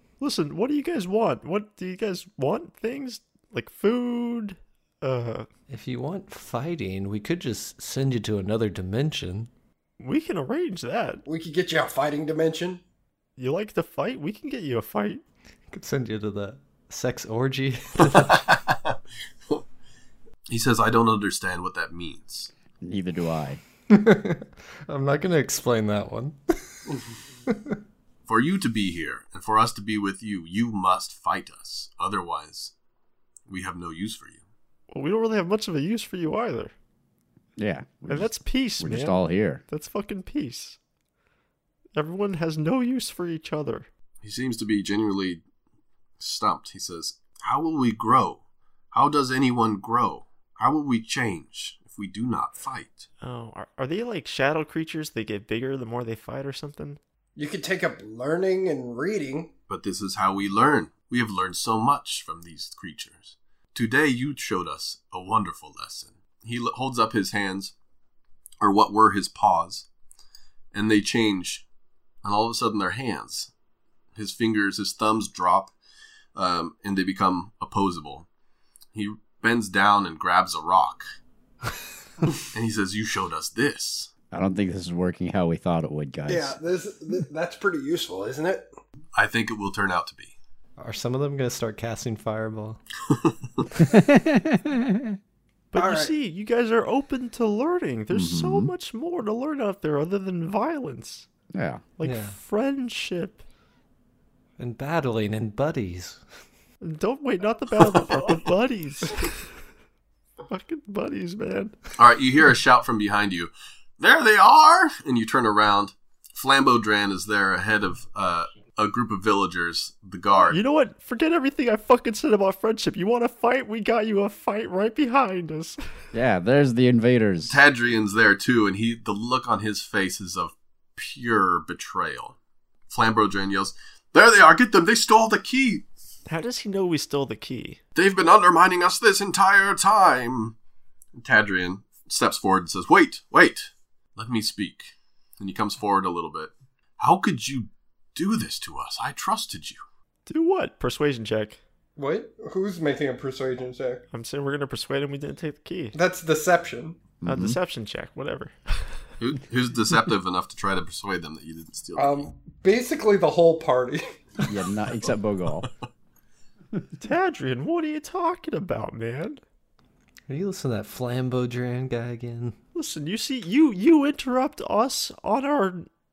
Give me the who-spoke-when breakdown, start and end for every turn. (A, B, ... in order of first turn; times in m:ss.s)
0:00.2-0:05.5 A
0:05.7-0:09.5 B
0:10.0-0:11.2 A
0:11.2-0:12.8 C
0:13.4-0:15.2 A
0:15.7-0:18.4 B
0:18.1-0:19.0 D
0:20.5-0:22.5 D
0:22.8-0:23.6 E
0:23.9-0:26.8 B
0:27.5-0:27.8 B
0:28.2-0:32.7 D
0:33.5-0:34.4 D
0:34.9-0:36.7 A
0:37.6-0:39.6 E
0:38.1-0:40.8 A
0:42.0-0:43.9 A
0:44.2-0:45.4 D
0:46.2-0:48.4 D
0:48.9-0:53.0 D
0:53.2-0:57.0 A
0:57.4-0:59.5 C
0:59.7-1:07.7 D
1:08.6-1:09.9 D
1:10.7-1:11.6 D
1:12.2-1:13.5 D
1:14.1-1:15.7 D
1:16.3-1:18.3 D
1:18.9-1:21.0 D
1:22.5-1:24.1 D
1:24.3-1:26.6 E
1:26.3-1:28.7 C
1:29.1-1:30.3 D
1:30.8-1:32.8 B
1:33.1-1:33.6 D
1:33.8-1:35.2 E
1:35.7-1:41.3 A
1:35.7-1:36.1 C
1:38.1-1:38.7 E
1:41.5-1:41.8 E
1:42.0-1:43.4 A
1:42.0-1:42.4 B
1:44.6-1:46.2 B
1:46.8-1:49.4 A
1:50.5-1:51.7 A
1:52.0-2:00.6 D
2:00.5-2:05.8 A
2:06.1-2:07.6 E
2:07.5-2:12.4 D
2:12.9-2:15.8 D
2:16.3-2:17.8 A
2:18.0-2:20.6 D
2:21.1-2:29.8 D
2:30.3-2:31.6 A
2:32.0-2:34.0 C
2:34.1-2:35.9 A
2:35.9-2:37.0 C
2:37.2-2:37.6 E
2:37.2-2:39.0 A
2:39.2-2:42.3 D
2:42.0-2:44.0 C
2:44.4-2:45.7 E
2:47.0-2:49.4 A
2:50.3-2:52.6 B
2:52.7-2:55.9 A